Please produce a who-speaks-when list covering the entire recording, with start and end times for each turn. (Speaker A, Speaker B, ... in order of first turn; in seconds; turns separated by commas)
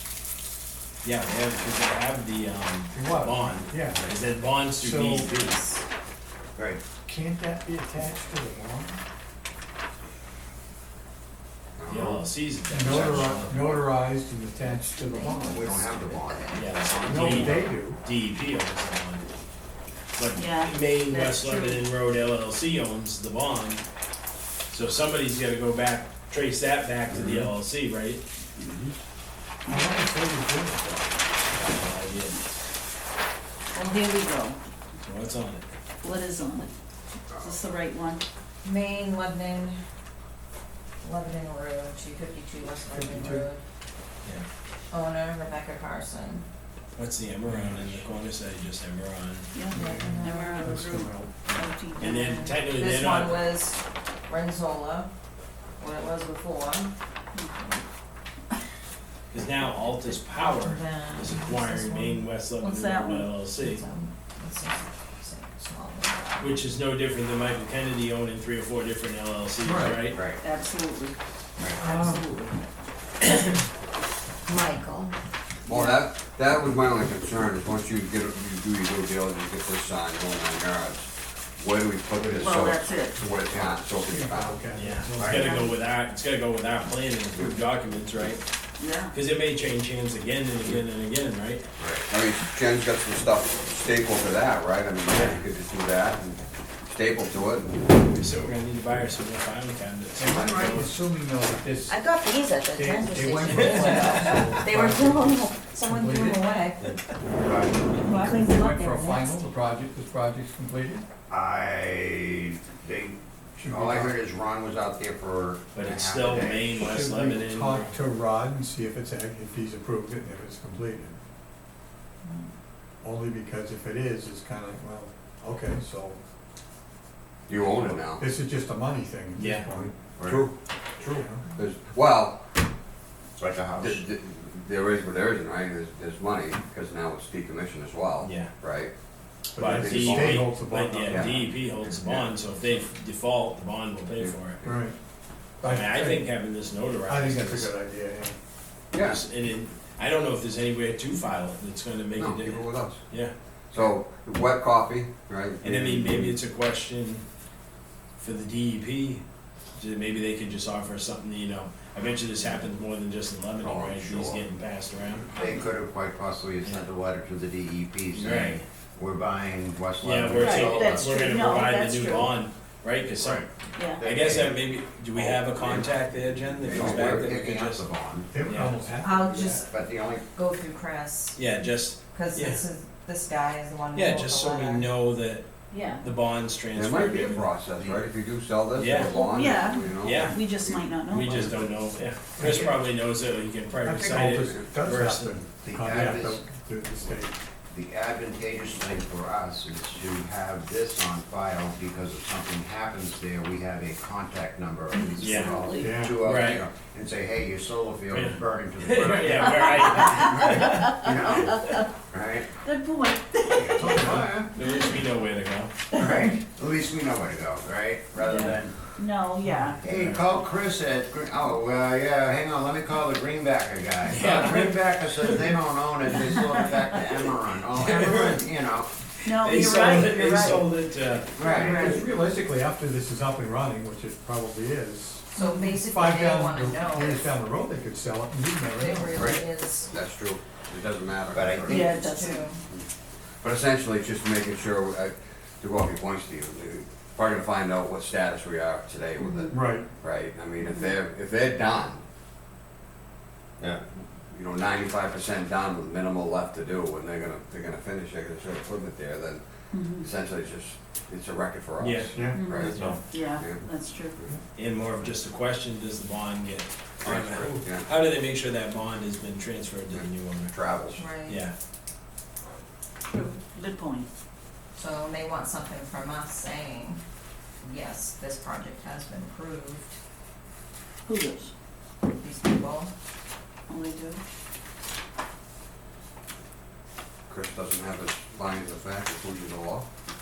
Speaker A: 1.0-5.6, Speaker B: 2.9-4.1, Speaker B: 4.8-5.3, Speaker C: 5.2-5.8, Speaker D: 6.5-6.8, Speaker B: 7.0-9.0, Speaker E: 11.8-12.2, Speaker A: 11.9-13.8, Speaker D: 11.9-12.2, Speaker B: 12.7-16.0, Speaker E: 12.8-13.3, Speaker C: 14.6-16.9, Speaker D: 15.5-16.6, Speaker A: 16.5-19.2, Speaker B: 17.0-18.0, Speaker F: 17.1-17.6, Speaker A: 20.1-23.8, Speaker F: 20.3-21.6, Speaker C: 21.1-21.8, Speaker A: 24.7-28.2, Speaker D: 27.1-27.4, Speaker D: 28.6-28.9, Speaker B: 29.6-31.3, Speaker A: 31.5-32.4, Speaker F: 33.7-34.6, Speaker A: 35.0-35.6, Speaker F: 36.0-36.7, Speaker F: 37.3-38.2, Speaker C: 38.6-39.8, Speaker C: 41.0-43.6, Speaker B: 42.9-43.5, Speaker C: 44.9-46.5, Speaker A: 47.0-49.5, Speaker B: 47.5-48.1, Speaker F: 49.5-52.4, Speaker B: 49.7-51.3, Speaker C: 49.7-50.8, Speaker A: 52.0-53.4, Speaker C: 52.0-53.8, Speaker C: 54.3-55.1, Speaker C: 55.8-56.9, Speaker F: 57.3-57.8, Speaker A: 59.3-63.8, Speaker C: 60.0-62.3, Speaker F: 62.6-63.3, Speaker C: 63.2-66.7, Speaker A: 66.4-70.2, Speaker B: 69.6-70.0, Speaker D: 70.1-70.4, Speaker F: 70.4-72.6, Speaker B: 71.8-72.3, Speaker C: 74.5-75.1, Speaker E: 75.7-84.6, Speaker D: 82.2-82.6, Speaker F: 82.4-83.2, Speaker D: 83.4-83.8, Speaker B: 84.0-85.4, Speaker A: 84.7-88.4, Speaker D: 85.1-85.6, Speaker F: 85.2-85.7, Speaker F: 88.8-89.1, Speaker A: 89.1-91.6, Speaker D: 91.8-92.1, Speaker E: 92.1-98.1, Speaker D: 95.1-95.4, Speaker A: 98.1-101.0, Speaker B: 100.2-102.0, Speaker C: 101.9-107.0, Speaker B: 102.7-106.4, Speaker A: 103.5-104.4, Speaker D: 107.3-108.0, Speaker F: 108.0-108.6, Speaker C: 108.0-109.3, Speaker B: 108.2-111.0, Speaker D: 111.3-116.8, Speaker B: 113.6-114.1, Speaker A: 115.7-117.9, Speaker B: 116.8-121.2, Speaker C: 122.2-122.5, Speaker B: 123.0-126.2, Speaker E: 127.5-128.2, Speaker B: 128.0-129.9, Speaker A: 129.3-129.7, Speaker D: 130.2-130.5, Speaker E: 130.2-132.5, Speaker B: 131.1-131.4, Speaker D: 133.4-134.0, Speaker E: 133.7-138.9, Speaker A: 138.2-138.5, Speaker B: 139.5-141.5, Speaker E: 139.6-140.5, Speaker A: 139.6-144.7, Speaker E: 141.1-142.3, Speaker E: 144.2-144.7, Speaker B: 144.6-144.9, Speaker B: 145.6-146.3, Speaker A: 145.6-147.7, Speaker B: 147.1-148.4, Speaker E: 148.9-149.2, Speaker A: 149.0-153.3, Speaker E: 152.2-153.0, Speaker E: 153.7-156.3, Speaker A: 155.6-157.2, Speaker A: 158.2-159.2, Speaker A: 159.8-165.3, Speaker E: 163.6-164.4, Speaker D: 165.3-171.2, Speaker A: 168.1-168.6, Speaker A: 170.0-173.5, Speaker F: 170.3-172.4, Speaker F: 173.7-174.1, Speaker D: 174.0-175.8, Speaker A: 174.0-178.8, Speaker E: 175.2-175.8, Speaker E: 176.6-177.3, Speaker D: 176.7-178.3, Speaker B: 178.3-179.6, Speaker C: 179.0-181.4, Speaker D: 179.7-180.2, Speaker A: 181.3-182.6, Speaker C: 182.0-184.9, Speaker A: 183.9-187.5, Speaker F: 185.7-186.1, Speaker E: 186.7-190.8, Speaker D: 187.8-188.0, Speaker A: 188.8-189.1, Speaker F: 189.0-191.7, Speaker A: 190.0-190.4, Speaker A: 191.1-195.4, Speaker B: 192.4-192.7, Speaker D: 192.4-192.7, Speaker B: 193.8-197.4, Speaker E: 194.2-194.7, Speaker D: 195.6-196.4, Speaker D: 197.7-212.5, Speaker F: 204.9-206.0, Speaker A: 205.2-205.6, Speaker B: 205.8-206.2, Speaker A: 206.2-206.6, Speaker A: 208.1-210.9, Speaker F: 210.0-211.8, Speaker F: 212.6-214.1, Speaker D: 213.5-214.5, Speaker B: 213.8-214.3, Speaker A: 214.5-215.7, Speaker D: 215.9-218.9, Speaker F: 218.2-219.8, Speaker A: 219.8-220.3, Speaker D: 219.8-228.9, Speaker A: 224.1-225.4, Speaker A: 227.8-228.4, Speaker F: 229.2-230.7, Speaker A: 229.2-231.5, Speaker D: 231.4-232.0, Speaker C: 231.4-232.1, Speaker B: 231.5-239.4, Speaker C: 235.3-237.3, Speaker F: 235.4-235.7, Speaker C: 238.7-239.9, Speaker E: 239.9-241.9, Speaker D: 241.3-241.9, Speaker F: 241.7-242.5, Speaker C: 241.8-242.6, Speaker E: 242.7-252.0, Speaker B: 249.5-249.8, Speaker F: 250.6-250.9, Speaker E: 253.6-264.4, Speaker F: 259.7-260.1, Speaker A: 261.8-263.0, Speaker B: 262.1-263.1, Speaker F: 262.3-264.1, Speaker A: 264.5-270.5, Speaker E: 267.0-267.9, Speaker E: 269.9-271.1, Speaker C: 270.9-271.4, Speaker A: 271.3-271.5, Speaker F: 273.1-274.1, Speaker C: 274.8-277.0, Speaker C: 277.6-280.0, Speaker F: 281.0-281.5, Speaker C: 282.1-282.9, Speaker F: 283.7-284.2, Speaker E: 287.3-289.9